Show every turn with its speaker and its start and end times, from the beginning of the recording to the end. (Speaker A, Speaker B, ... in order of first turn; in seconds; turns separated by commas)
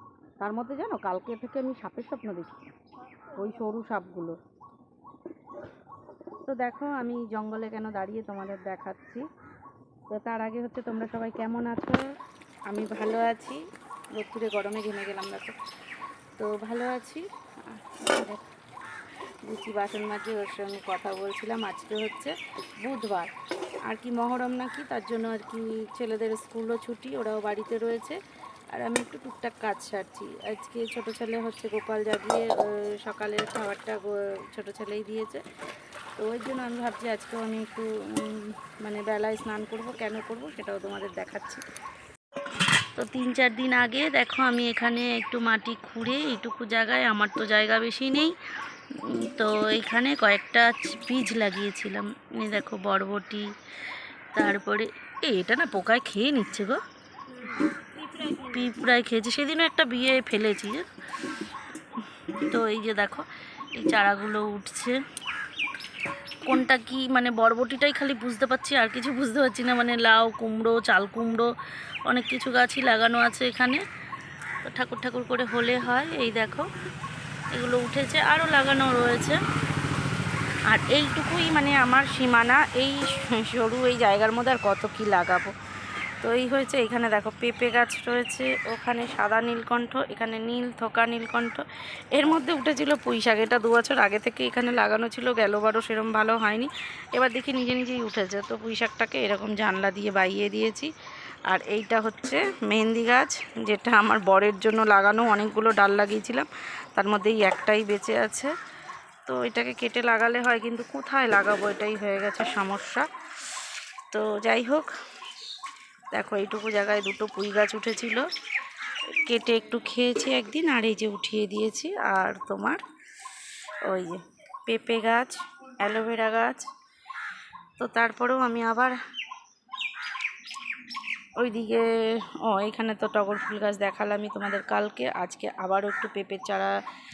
Speaker A: 0.4-2.6, Speaker A: 3.3-4.4, Speaker A: 6.5-9.3, Speaker A: 10.1-12.0, Speaker A: 12.7-13.6, Speaker A: 14.1-15.6, Speaker A: 16.4-18.4, Speaker A: 19.4-23.3, Speaker A: 23.9-28.2, Speaker A: 28.7-35.4, Speaker A: 36.2-41.6, Speaker A: 43.0-48.4, Speaker A: 48.9-53.5, Speaker A: 54.3-56.8, Speaker A: 57.4-60.9, Speaker A: 62.2-65.0, Speaker A: 66.4-71.5, Speaker A: 72.0-73.8, Speaker A: 74.6-76.7, Speaker A: 77.5-79.4, Speaker A: 80.7-85.5, Speaker A: 86.2-100.9, Speaker A: 101.5-108.5, Speaker A: 109.2-113.1, Speaker A: 114.1-114.9, Speaker A: 116.1-118.2, Speaker A: 119.1-122.8, Speaker A: 123.8-126.7, Speaker A: 127.8-129.0, Speaker A: 131.4-136.8